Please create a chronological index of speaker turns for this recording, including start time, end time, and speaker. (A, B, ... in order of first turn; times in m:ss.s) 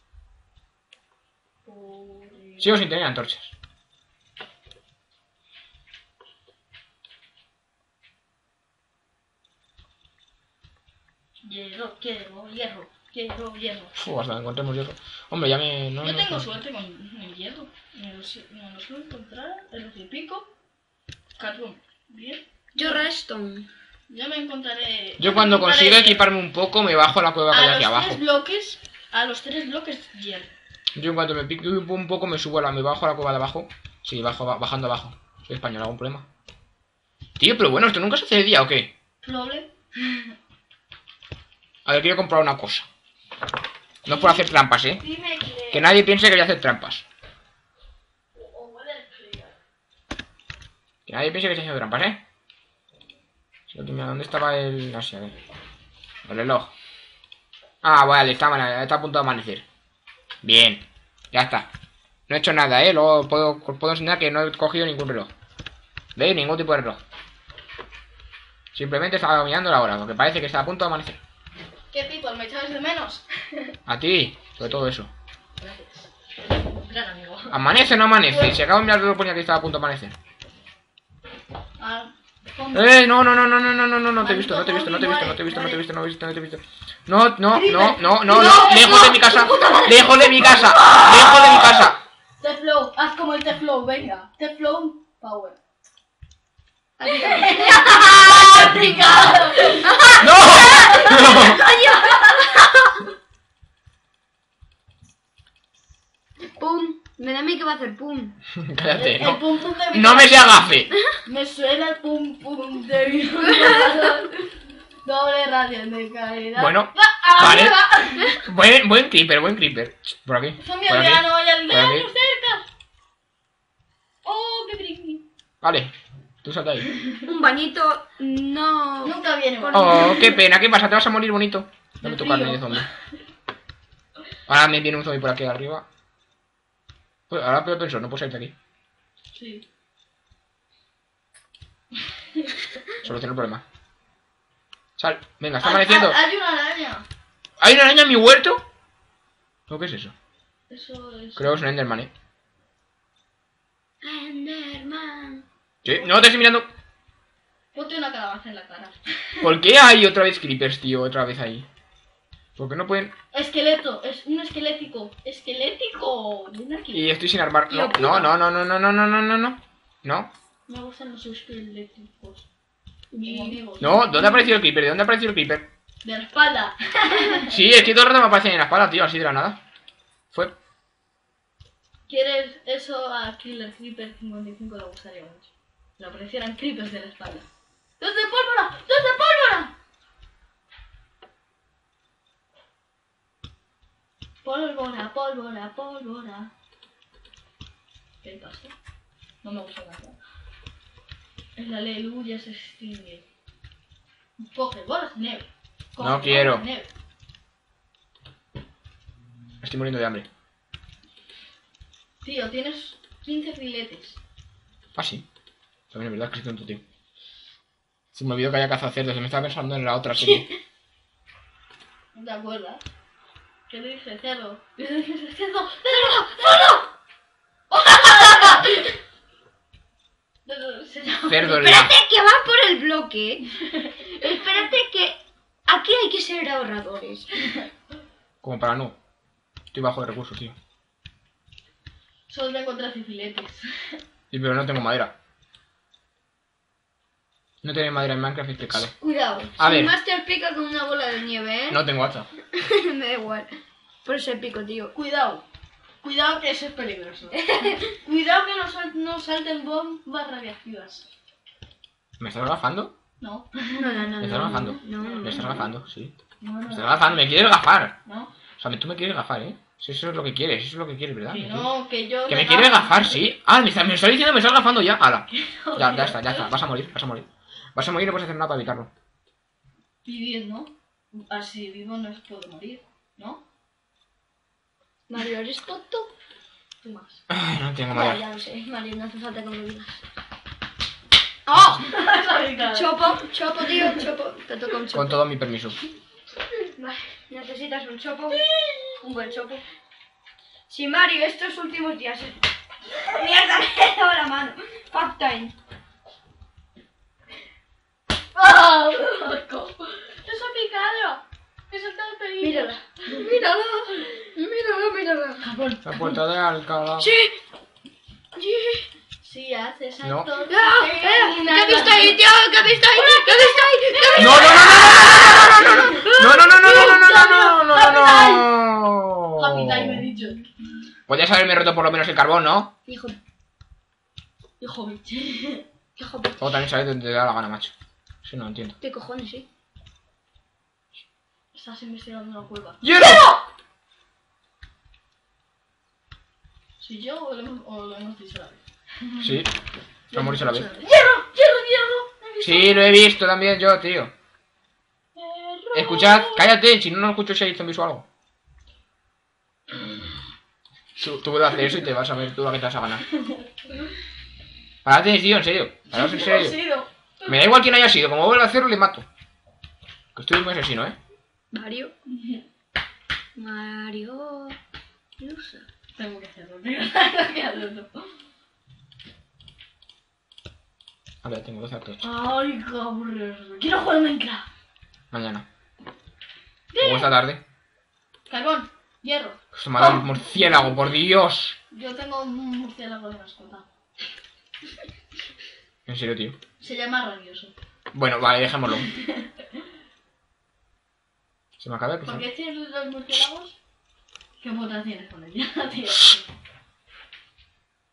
0:01.7-0:02.8 A
0:02.6-0:03.5 B
0:11.4-0:13.9 A
0:13.9-0:16.5 B
0:16.0-0:20.5 A
0:21.4-0:23.0 A
0:22.8-0:23.7 C
0:24.1-0:26.3 A
0:25.2-0:28.2 B
0:27.5-0:30.5 A
0:31.0-0:36.2 B
0:37.4-0:38.9 B
0:39.2-0:40.3 A
0:41.9-0:42.9 B
0:44.0-0:45.0 B
0:44.1-0:45.9 A
0:45.7-0:47.0 B
0:48.4-0:49.6 A
0:51.1-0:52.2 B
0:53.7-0:55.4 B
0:56.2-0:56.7 B
0:57.8-0:59.6 B
1:00.4-1:01.7 B
1:02.3-1:05.3 B
1:06.2-1:07.0 B
1:08.7-1:11.2 B
1:11.9-1:13.8 A
1:13.9-1:15.1 B
1:15.6-1:17.6 A
1:17.5-1:20.2 B
1:18.3-1:18.6 A
1:21.8-1:22.9 A
1:22.7-1:32.0 B
1:24.2-1:25.8 A
1:27.6-1:35.6 A
1:37.0-1:38.7 C
1:37.0-1:41.8 A
1:38.6-1:39.0 B
1:39.6-1:43.1 C
1:40.2-1:41.6 B
1:46.6-1:48.4 C
1:48.6-1:51.0 B
1:48.9-1:54.5 A
1:53.4-1:54.3 C
1:55.0-1:58.5 A
1:56.6-2:02.1 B
2:00.6-2:02.6 A
2:04.2-2:05.2 A
2:05.6-2:05.9 B
2:06.4-2:06.9 B
2:07.2-2:10.4 C
2:09.0-2:10.3 A
2:09.7-2:12.9 B
2:12.0-2:12.9 A
2:14.5-2:15.9 B
2:17.3-2:18.5 B
2:19.4-2:19.6 A
2:23.0-2:23.6 B
2:25.0-2:26.2 B
2:25.6-2:27.1 A
2:27.6-2:28.6 B
2:29.7-2:30.1 B
2:30.7-2:31.6 A
2:31.4-2:32.1 B
2:34.0-2:35.4 C
2:35.8-2:36.7 B
2:37.7-2:39.4 A
2:39.4-2:41.7 B
2:42.6-2:43.1 B
2:43.3-2:47.2 A
2:46.9-2:50.3 B
2:47.7-2:48.3 C
2:50.7-2:52.5 A
2:53.1-2:53.6 C
2:53.2-2:54.5 A
2:53.8-2:55.7 B
2:56.0-2:57.6 A
2:57.5-2:59.6 B
3:02.1-3:07.5 A
3:08.0-3:09.7 A
3:14.4-3:16.5 A
3:18.2-3:18.8 A
3:19.4-3:20.2 A
3:21.6-3:23.2 A
3:24.4-3:26.9 A
3:26.0-3:26.7 B
3:29.6-3:30.3 B
3:32.2-3:34.2 A
3:35.0-3:35.2 B
3:35.9-3:36.8 B
3:38.1-3:40.5 B
3:42.1-3:42.9 A
3:43.7-3:46.8 A
3:46.1-3:46.8 C
3:47.7-3:49.0 A
3:50.5-3:51.7 A
3:51.3-3:51.9 B
3:51.4-3:53.5 C
3:53.6-3:54.0 A
3:54.0-3:57.5 C
3:58.4-3:59.0 B
3:59.7-4:00.6 B
4:02.3-4:04.0 A
4:04.3-4:05.1 B
4:07.6-4:08.9 B
4:08.7-4:11.8 C
4:09.6-4:10.0 B
4:11.7-4:12.3 B
4:12.4-4:13.5 C
4:14.0-4:14.9 C
4:14.9-4:15.4 A
4:16.0-4:21.1 A
4:17.3-4:17.9 C
4:22.2-4:22.9 B
4:23.2-4:25.7 A
4:23.8-4:25.7 C
4:24.2-4:26.1 B
4:26.4-4:27.2 A
4:26.7-4:28.0 B
4:28.0-4:28.3 A
4:28.6-4:31.7 B
4:31.3-4:33.2 A
4:32.3-4:38.9 B
4:35.3-4:36.5 A
4:40.0-4:43.4 A
4:45.1-4:46.1 C
4:46.8-4:47.2 A
4:47.3-4:48.2 B
4:47.9-4:50.0 C
4:51.5-4:51.9 C
4:51.8-4:54.0 A
4:52.7-4:55.2 C
4:54.9-4:55.8 B
4:56.6-4:59.6 C
4:58.3-4:59.1 A
5:00.7-5:05.5 C
5:08.4-5:14.2 A
5:12.4-5:15.5 C
5:15.4-5:16.2 A
5:15.8-5:17.1 B
5:17.0-5:17.4 C
5:18.4-5:18.8 C
5:19.2-5:22.2 A
5:20.0-5:20.3 B
5:20.5-5:27.2 C
5:22.9-5:28.4 A
5:24.2-5:30.1 B
5:29.4-5:30.5 A
5:31.1-5:32.7 B
5:32.9-5:33.2 C
5:34.6-5:35.6 A
5:36.0-5:36.4 C
5:36.4-5:38.8 B
5:38.8-5:39.5 C
5:41.5-5:42.9 A
5:42.8-5:43.3 B
5:43.0-5:43.3 C
5:46.8-5:49.2 A
5:49.2-5:49.5 B
5:50.1-5:53.0 A
5:50.1-5:50.7 B
5:52.4-5:54.1 B
5:55.1-5:56.4 A
5:55.7-5:58.1 B
6:01.0-6:03.0 B
6:04.8-6:06.6 B
6:05.9-6:07.3 A
6:07.2-6:09.0 B
6:10.1-6:11.0 B
6:11.5-6:11.9 C
6:12.1-6:12.4 A
6:13.4-6:14.6 C
6:15.2-6:18.1 A
6:21.2-6:22.1 B
6:22.0-6:24.5 A
6:25.1-6:25.5 B
6:26.7-6:27.1 A
6:26.8-6:27.4 B
6:28.3-6:30.2 A
6:29.5-6:31.6 B
6:31.7-6:33.7 A
6:35.9-6:36.4 B
6:36.6-6:37.5 A
6:37.9-6:38.9 B
6:38.9-6:39.3 A
6:41.6-6:42.2 B
6:42.0-6:43.6 A
6:44.4-6:46.3 A